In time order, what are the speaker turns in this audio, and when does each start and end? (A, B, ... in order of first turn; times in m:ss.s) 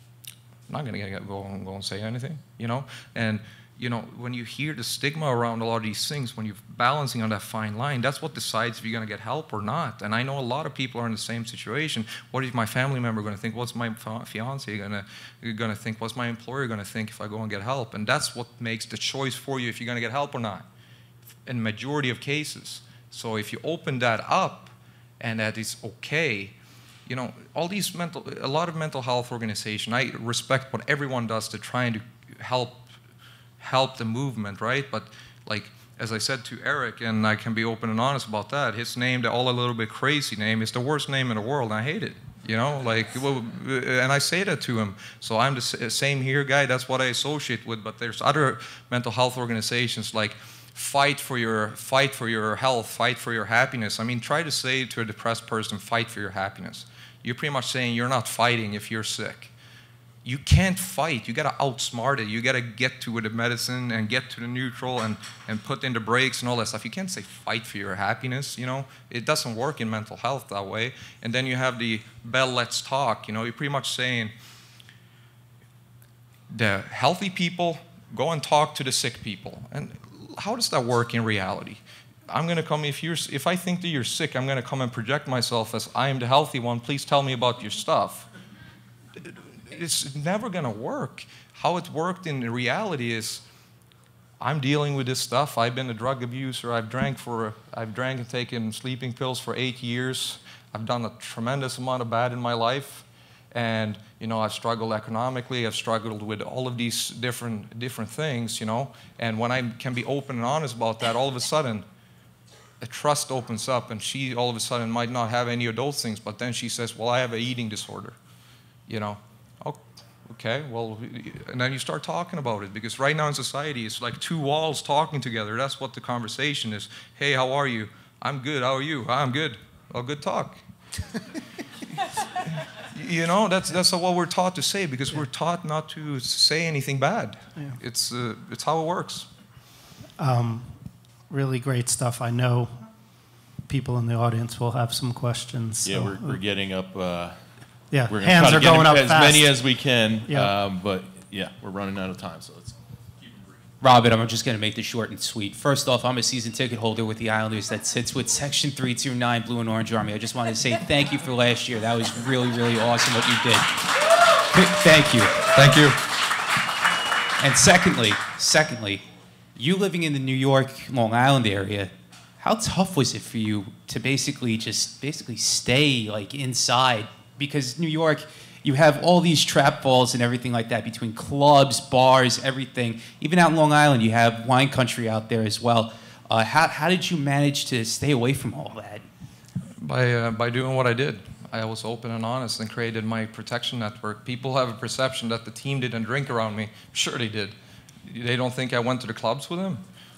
0:00.7-0:20.7 A
0:21.4-0:26.6 A
0:27.1-0:32.9 A
0:33.6-0:59.5 A
1:00.2-1:14.3 A
1:16.5-1:28.3 A
1:29.2-1:33.4 A
1:34.4-1:51.9 A
1:52.8-1:58.2 A
1:58.9-2:10.6 A
2:12.2-2:19.3 A
2:20.2-2:20.8 B
2:21.3-2:22.8 B
2:23.7-2:26.4 B
2:25.8-2:27.4 C
2:27.9-2:29.6 B
2:28.1-2:33.6 C
2:30.3-2:30.5 B
2:33.8-2:45.8 D
2:45.5-2:46.0 A
2:47.4-2:49.0 D
2:49.6-3:09.0 D
3:09.8-3:19.9 A